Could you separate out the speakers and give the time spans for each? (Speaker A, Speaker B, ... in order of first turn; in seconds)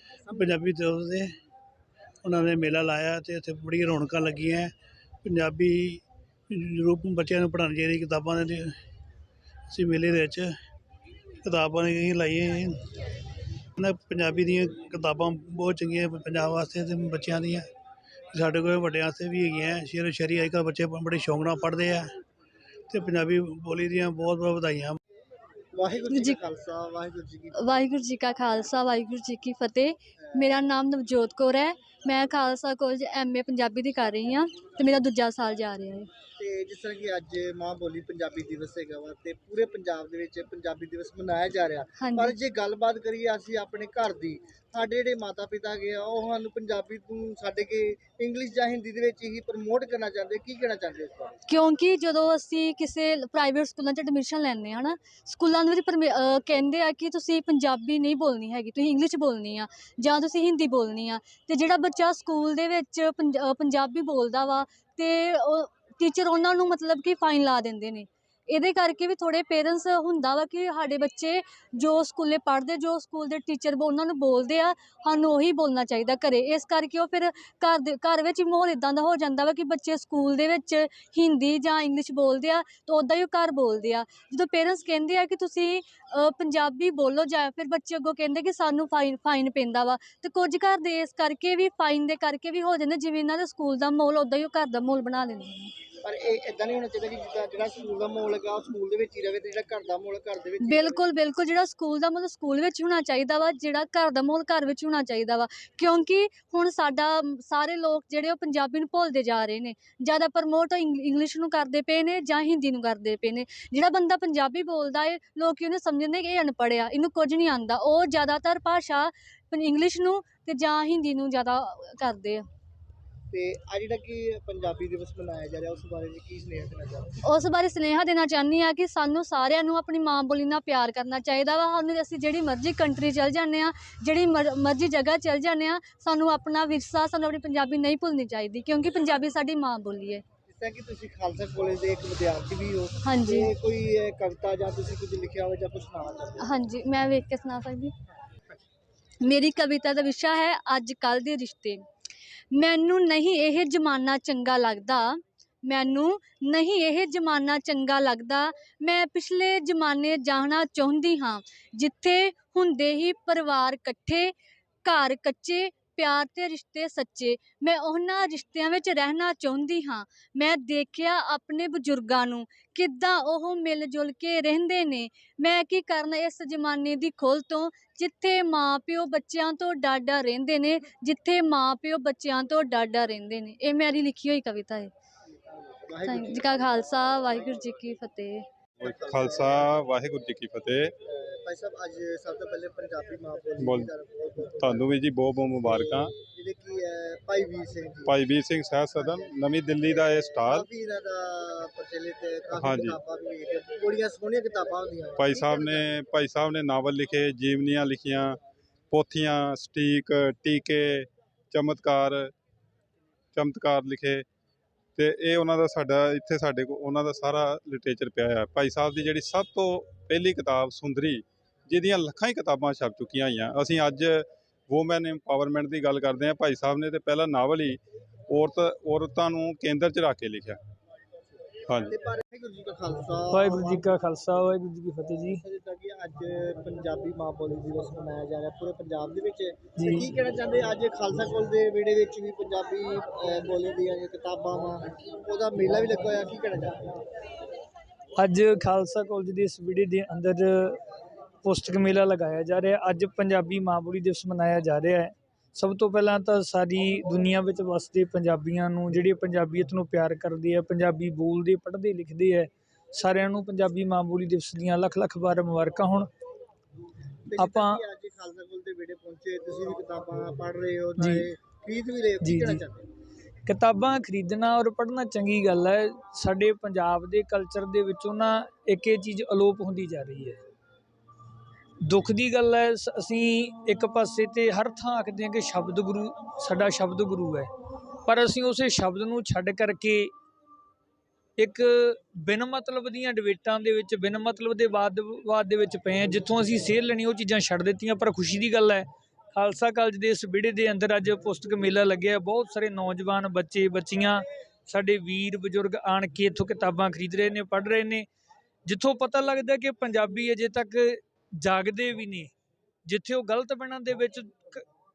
Speaker A: 0.3-1.3, 2.2-4.7, 5.2-8.8, 9.7-10.5, 11.4-12.8, 13.8-17.6, 18.3-22.1, 22.9-25.0
Speaker B: 25.7-27.6, 30.2-30.6, 36.4-51.4, 96.0-101.0, 123.3-127.2, 140.5-146.5, 185.4-187.8, 188.8-189.8, 191.0-194.9, 195.6-198.1, 198.9-205.9, 231.9-233.9, 235.3-246.8, 267.3-272.9
Speaker C: 26.1-26.4, 27.6-36.1, 42.0-42.3, 51.5-95.7, 100.6-122.4, 127.2-140.2, 143.0-143.5, 146.4-147.9, 149.2-151.8, 152.5-164.3, 164.8-184.9, 186.0-188.4
Speaker D: 188.8-190.9, 193.6-193.9, 194.6-196.1, 198.1-200.7, 202.6-203.0, 205.2-208.4, 208.9-212.3, 213.3-214.2, 214.9-230.6, 231.7-231.9
Speaker E: 233.3-235.4, 239.8-240.1, 248.2-250.8, 251.4-266.1, 267.4-267.8, 271.0-271.3, 272.2-272.6, 273.4-280.4, 281.8-287.5, 288.0-290.1, 291.4-308.1, 308.6-312.3, 312.9-314.6